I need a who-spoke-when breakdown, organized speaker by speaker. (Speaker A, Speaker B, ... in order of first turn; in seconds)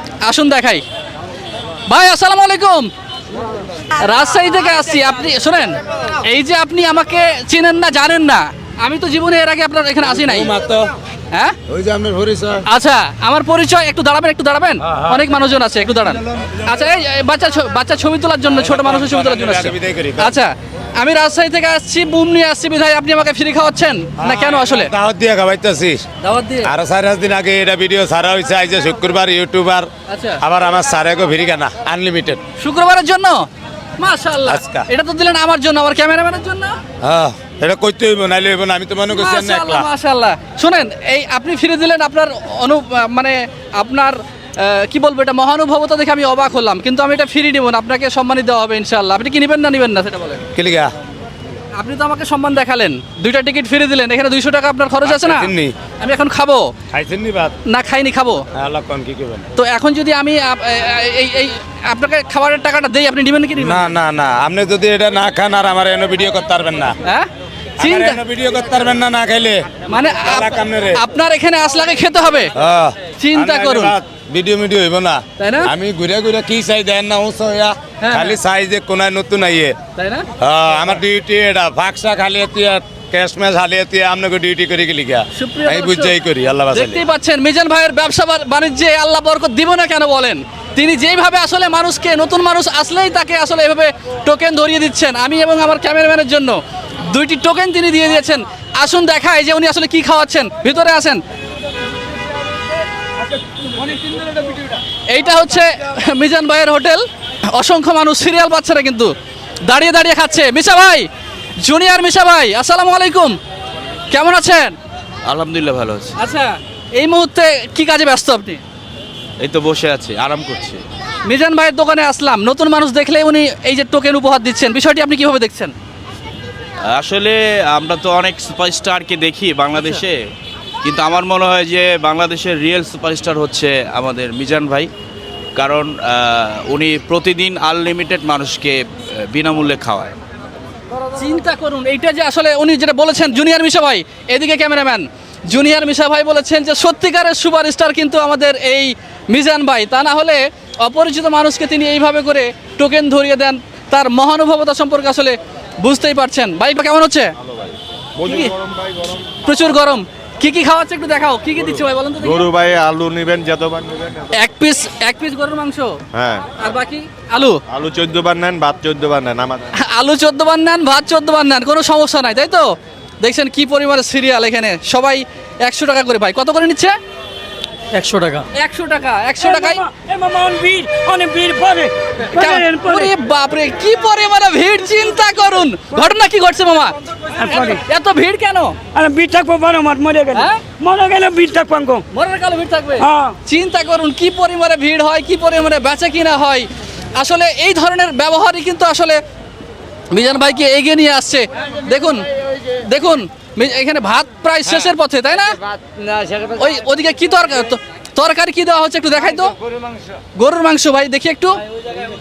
Speaker A: 0.2-0.8, 1.9-2.9, 4.0-10.5, 12.7-24.9, 26.2-26.7, 30.1-30.4, 32.6-33.5, 34.0-36.7, 39.1-50.4, 51.8-56.7, 57.7-58.4, 59.6-63.9, 67.8-68.2, 69.9-72.5, 73.2-74.0, 75.4-75.7, 78.0-78.3, 80.0-80.3, 85.3-86.1, 86.7-101.2, 105.1-109.1, 109.6-111.1, 111.6-113.3, 114.1-114.8, 116.2-118.6, 121.2-125.7, 141.1-157.3, 158.2-158.5, 159.4-162.5, 164.3-166.0, 166.6-167.6, 169.8-176.9, 178.5-179.8, 182.3-188.8, 190.3-190.6, 192.1-199.2, 200.1-205.6, 206.3-209.5, 210.4-211.6
Speaker B: 10.0-10.9, 11.7-12.6, 14.9-15.2, 18.5-20.4, 24.2-26.0, 26.6-29.9, 30.4-32.4, 34.5-34.9, 37.0-39.9, 50.5-50.9, 55.0-55.7, 56.9-57.5, 58.5-59.4, 63.6-67.0, 67.8-69.6, 70.2-71.0, 72.5-79.7, 80.4-87.0
Speaker C: 115.2-116.2, 119.4-120.8, 126.9-130.2, 130.8-134.9, 135.5-140.1
Speaker D: 157.4-159.2, 162.2-164.3, 166.1-166.5, 167.7-169.7
Speaker E: 177.9-178.4, 179.4-183.1, 187.3-187.8, 188.9-192.0, 193.0-193.3